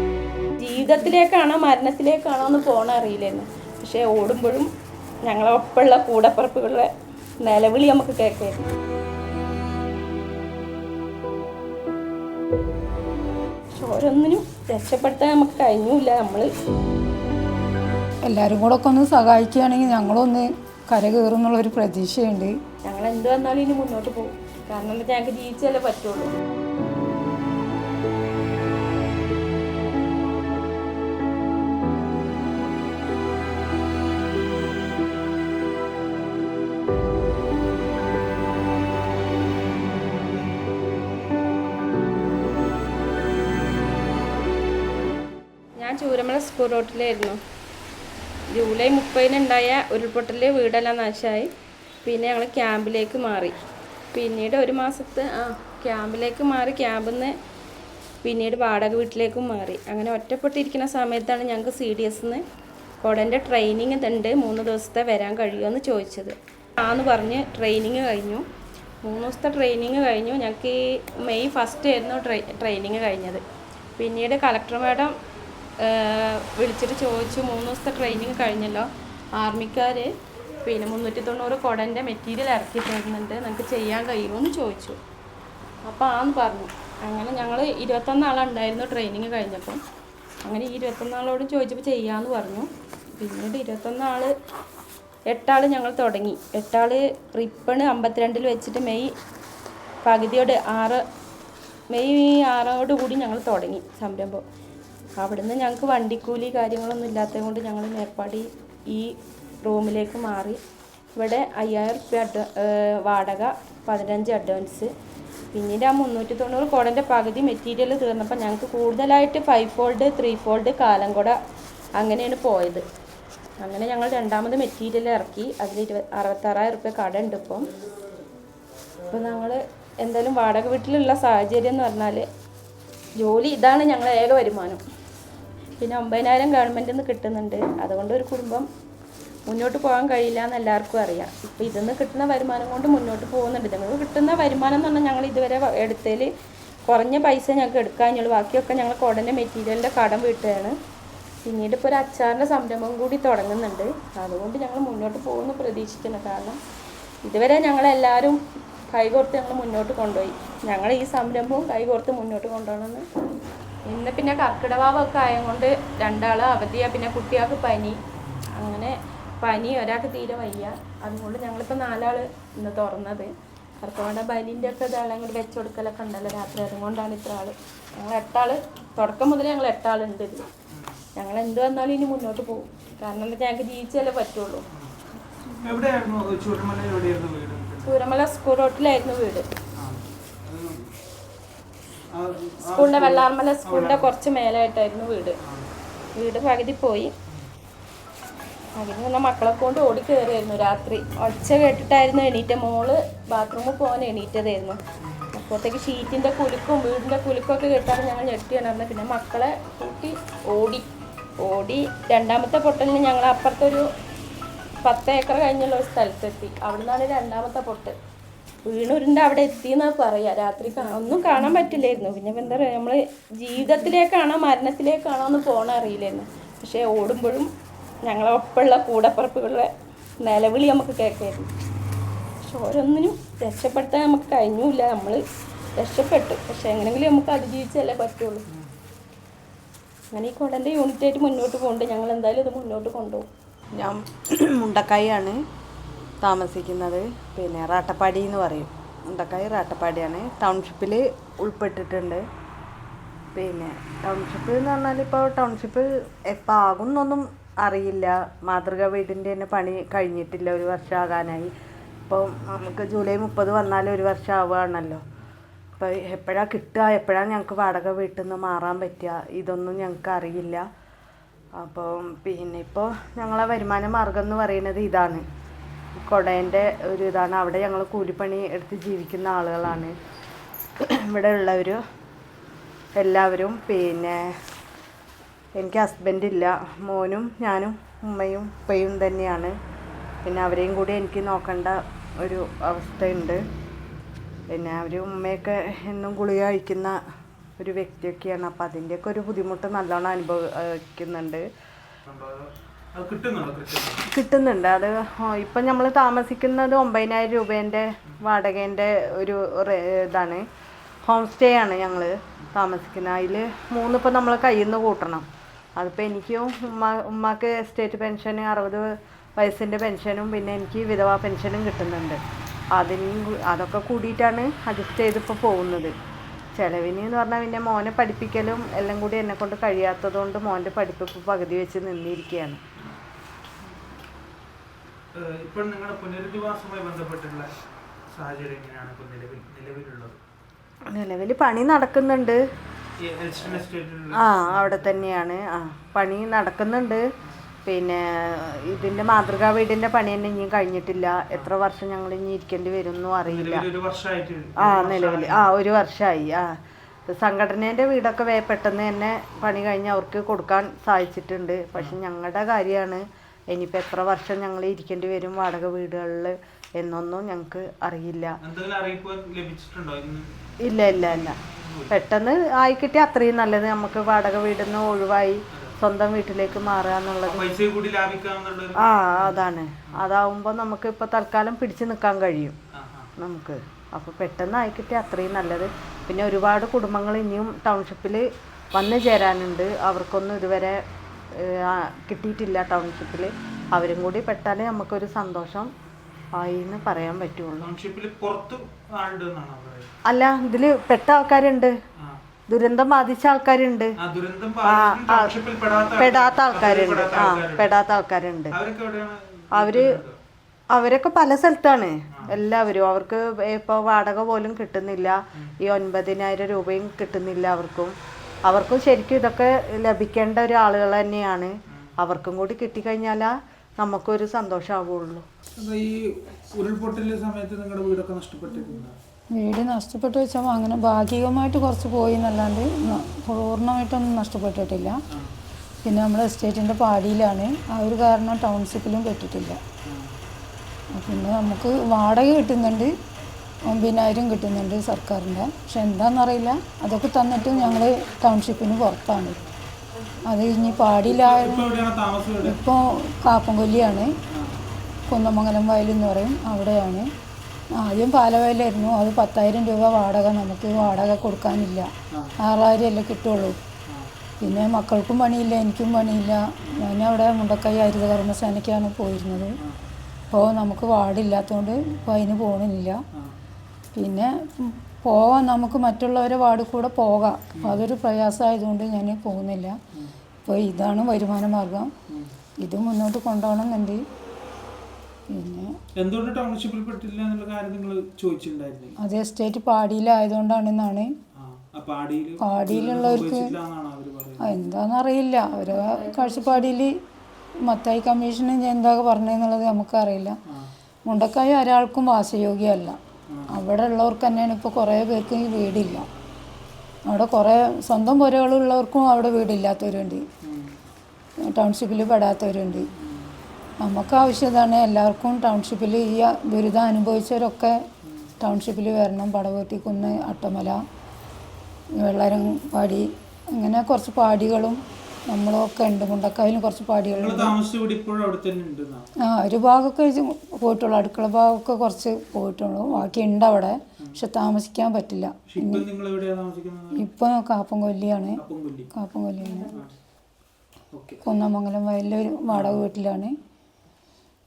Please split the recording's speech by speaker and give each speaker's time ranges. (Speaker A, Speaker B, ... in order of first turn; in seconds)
Speaker A: 0.6-4.7, 5.2-6.9, 7.4-8.7, 13.7-16.5, 22.8-26.3, 45.8-47.4, 48.5-51.5, 52.0-53.5, 54.1-57.3, 58.2-62.4, 63.0-68.4, 69.0-73.4, 74.0-75.1, 75.8-80.1, 80.6-85.0, 85.8-89.8, 90.4-94.3, 95.3-99.1, 100.0-101.0, 101.9-104.4, 105.2-109.1, 109.6-110.6, 111.2-114.9, 115.5-121.4, 122.0-122.8, 123.6-127.7, 129.1-132.2, 133.2-134.8, 135.8-138.7, 139.5-146.3, 146.9-150.7, 151.4-156.6, 157.2-158.4, 158.9-163.0, 163.9-168.0, 168.6-173.3, 173.8-180.4, 181.2-184.6, 187.9-189.5, 192.7-195.4, 196.2-197.1, 198.8-204.8, 205.3-210.8, 211.4-213.8, 214.8-217.9, 218.6-227.5, 228.1-229.7, 230.2-231.5, 232.4-235.2, 235.8-238.4, 240.1-243.3
Speaker B: 18.3-22.5, 429.4-435.0, 435.8-439.6, 440.9-442.9, 443.7-449.4, 450.3-451.7, 452.4-454.1, 455.1-457.1, 457.8-461.9, 462.4-463.6, 464.4-469.5, 470.3-473.0, 473.9-479.8, 480.4-481.9, 482.6-484.0, 485.3-485.7, 489.0-491.1, 492.4-493.5, 494.4-496.9, 497.6-500.4, 501.1-503.0, 503.5-506.1, 507.1-510.2, 511.5-512.9, 513.8-517.8, 518.4-520.8, 522.0-527.6, 529.2-535.8, 536.9-538.4, 538.9-539.7, 541.2-543.3
Speaker C: 168.2-168.4, 176.3-176.7, 180.7-181.0, 184.7-184.9, 185.6-188.0, 189.8-190.9, 192.1-194.1, 195.4-195.7, 205.0-205.3, 302.1-304.0, 335.1-337.5, 338.1-340.2, 343.0-345.1, 353.2-355.5, 368.4-370.3, 370.9-372.1, 377.2-380.0, 382.7-383.1, 397.6-399.9, 404.0-407.7, 408.5-410.1, 425.6-429.0, 432.8-433.1, 439.9-440.1, 451.1-452.6, 454.3-454.6, 477.6-477.9, 486.0-488.9, 491.4-494.6, 503.3-503.6, 510.4-510.8, 512.9-513.4, 518.0-518.3, 527.1-529.1, 532.9-533.2, 535.5-537.0, 538.4-538.9, 540.9-541.2, 542.5-542.8
Speaker D: 243.8-245.4, 246.2-252.2, 253.3-261.5, 262.1-265.0, 265.8-270.6, 271.6-275.2, 276.0-279.9, 281.0-281.8, 283.0-284.3, 285.6-289.5, 290.2-293.4, 294.5-296.9, 297.6-301.4, 304.1-310.4, 311.0-322.2, 322.7-325.9, 326.6-332.6, 340.9-342.4, 344.2-347.0, 347.6-353.6, 354.6-356.5, 357.1-368.3, 370.7-371.4, 371.9-377.5, 378.8-382.6, 383.2-390.8, 391.4-395.7, 396.3-397.7, 400.1-401.7, 402.5-403.9, 404.6-405.3, 406.0-408.5, 409.5-410.0, 410.7-417.9, 418.5-425.2